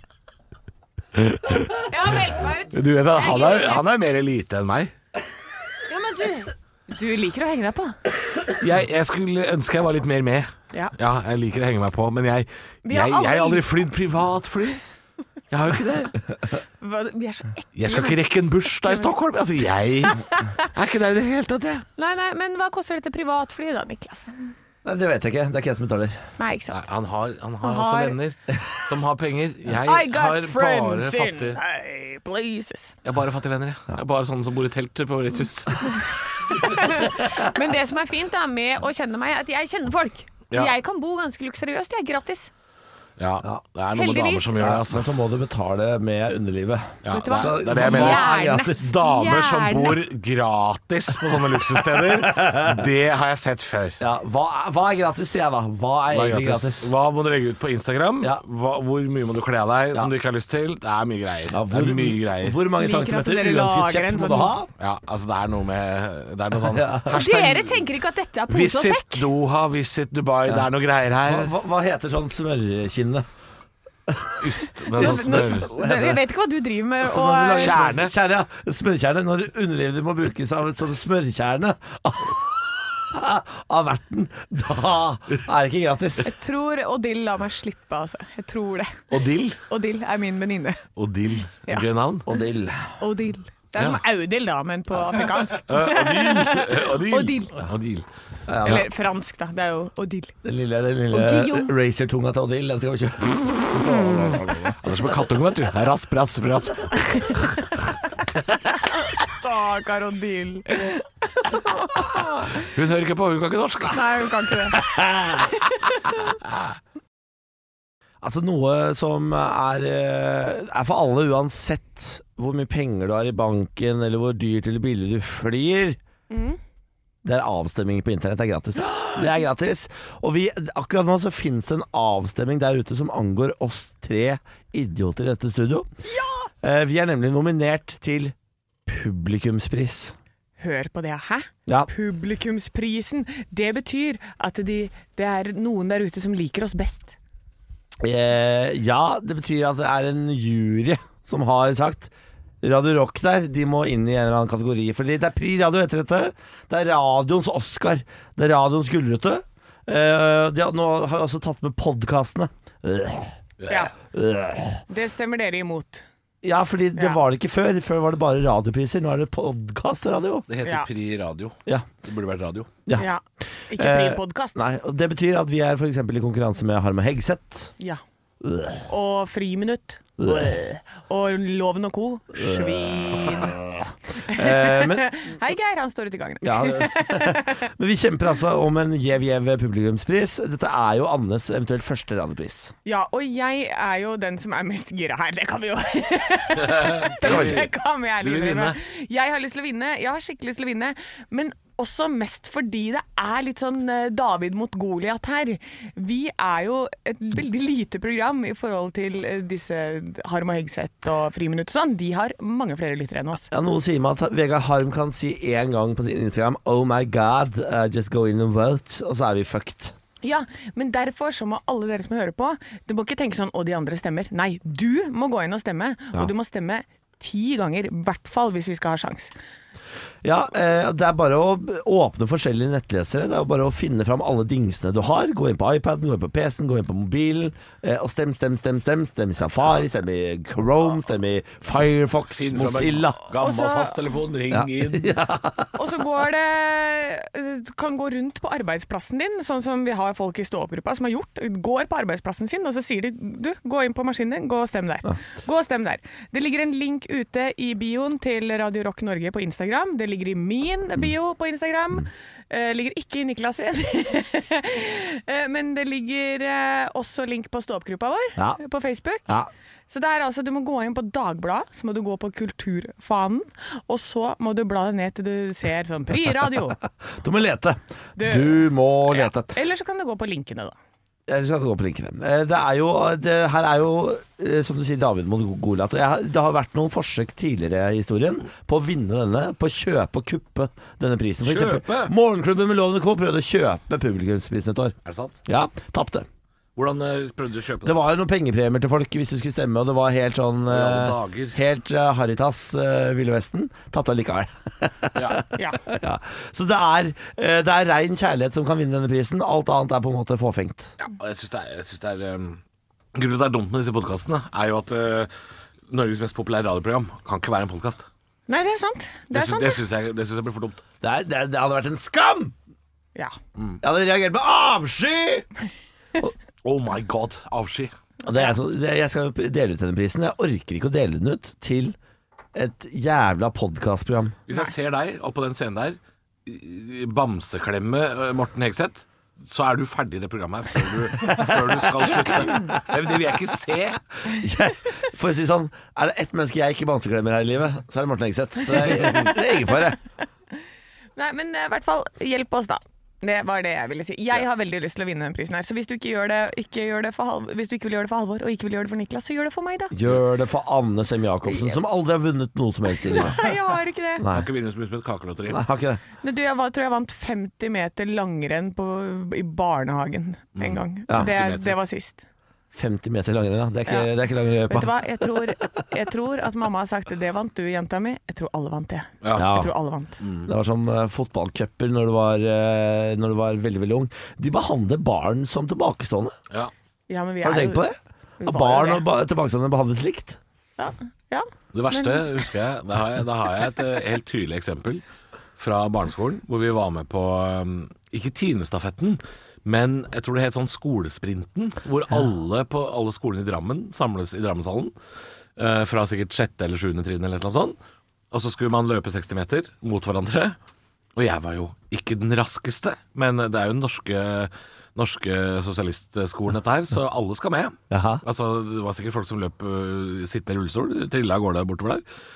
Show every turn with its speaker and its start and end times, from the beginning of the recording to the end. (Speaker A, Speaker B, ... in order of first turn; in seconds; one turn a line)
Speaker A: 1.1-1.8
Speaker B: 1.9-3.8
Speaker A: 2.7-4.9
Speaker B: 5.9-8.0
Speaker A: 8.5-14.8
Speaker B: 12.8-13.8
Speaker A: 15.5-16.2
Speaker B: 16.8-19.1
Speaker A: 17.8-21.8
Speaker B: 20.1-20.6
Speaker B: 22.0-24.5
Speaker C: 24.8-26.2
Speaker B: 26.4-26.8
Speaker A: 26.7-31.6
Speaker B: 27.6-28.2
Speaker B: 29.7-33.0
Speaker A: 33.0-36.1
Speaker B: 36.5-42.5
Speaker A: 43.2-45.1
Speaker B: 43.9-44.7
Speaker C: 44.6-48.9
Speaker A: 47.0-54.0
Speaker B: 47.1-50.0
Speaker C: 51.8-52.8
Speaker C: 54.0-56.9
Speaker A: 56.1-62.6
Speaker C: 61.5-64.7
Speaker B: 62.7-64.6
Speaker A: 64.8-67.8
Speaker C: 66.7-67.2
Speaker B: 67.1-69.2
Speaker A: 68.5-71.5
Speaker C: 71.2-73.2
Speaker C: 74.1-76.2
Speaker A: 74.4-75.7
Speaker B: 74.9-77.9
Speaker C: 77.0-86.3
Speaker A: 77.5-78.1
Speaker B: 86.2-89.1
Speaker A: 89.1-89.6
Speaker B: 89.6-90.9
Speaker A: 91.0-92.2
Speaker C: 92.2-93.0
Speaker B: 93.0-97.5
Speaker A: 95.7-98.0
Speaker C: 98.5-98.9
Speaker B: 98.6-100.3
Speaker C: 100.4-104.8
Speaker B: 101.1-101.7
Speaker A: 103.8-107.4
Speaker B: 107.0-107.8
Speaker B: 108.7-112.7
Speaker A: 112.5-114.3
Speaker B: 113.9-114.8
Speaker C: 114.8-115.5
Speaker B: 115.4-116.1
Speaker C: 118.2-126.0
Speaker B: 126.3-126.6
Speaker C: 127.2-135.9
Speaker B: 136.1-136.5
Speaker C: 136.6-138.3
Speaker C: 138.8-140.2
Speaker B: 140.6-147.1
Speaker C: 148.0-152.1
Speaker C: 152.6-163.4
Speaker A: 163.6-163.9
Speaker B: 163.7-163.9
Speaker C: 164.1-164.8
Speaker B: 164.9-166.0
Speaker C: 166.4-170.5
Speaker A: 170.5-172.7
Speaker B: 172.9-174.6
Speaker C: 173.7-177.7
Speaker C: 178.4-178.9
Speaker B: 178.9-183.6
Speaker C: 180.2-180.6
Speaker C: 182.3-185.1
Speaker B: 184.3-187.6
Speaker C: 186.4-192.7
Speaker B: 192.8-213.5
Speaker A: 196.6-198.8
Speaker C: 197.2-197.7
Speaker C: 213.5-219.9
Speaker B: 220.2-229.3
Speaker C: 230.2-243.2
Speaker A: 242.3-245.1
Speaker B: 243.4-244.0
Speaker C: 244.5-245.7
Speaker B: 245.7-269.3
Speaker B: 269.9-276.8
Speaker C: 277.2-279.5
Speaker B: 278.2-280.7
Speaker C: 281.3-296.3
Speaker A: 291.4-292.1
Speaker A: 295.0-295.4
Speaker A: 296.8-297.9
Speaker C: 297.8-310.9
Speaker A: 300.7-301.6
Speaker A: 305.1-305.4
Speaker A: 311.0-312.6
Speaker A: 313.1-315.3
Speaker A: 315.9-318.1
Speaker B: 318.5-319.8
Speaker A: 319.3-320.8
Speaker C: 321.0-322.5
Speaker C: 323.8-325.5
Speaker A: 326.6-327.9
Speaker C: 328.2-331.9
Speaker C: 332.5-334.4
Speaker A: 334.5-344.0
Speaker C: 344.3-350.0
Speaker B: 348.7-349.9
Speaker B: 351.1-359.9
Speaker C: 359.9-363.4
Speaker B: 361.5-361.8
Speaker B: 363.0-364.2
Speaker C: 364.2-364.4
Speaker A: 364.3-365.6
Speaker C: 365.5-366.0
Speaker B: 366.2-372.2
Speaker A: 370.6-371.8
Speaker C: 372.7-374.9
Speaker B: 374.7-380.2
Speaker A: 379.2-379.5
Speaker C: 379.3-379.7
Speaker A: 380.2-380.5
Speaker C: 380.4-386.3
Speaker B: 387.1-387.9
Speaker C: 387.4-390.4
Speaker B: 388.4-389.0
Speaker B: 390.8-392.3
Speaker A: 391.7-395.0
Speaker A: 395.6-404.9
Speaker A: 405.6-407.8
Speaker A: 408.3-410.6
Speaker A: 411.1-422.0
Speaker C: 417.9-418.2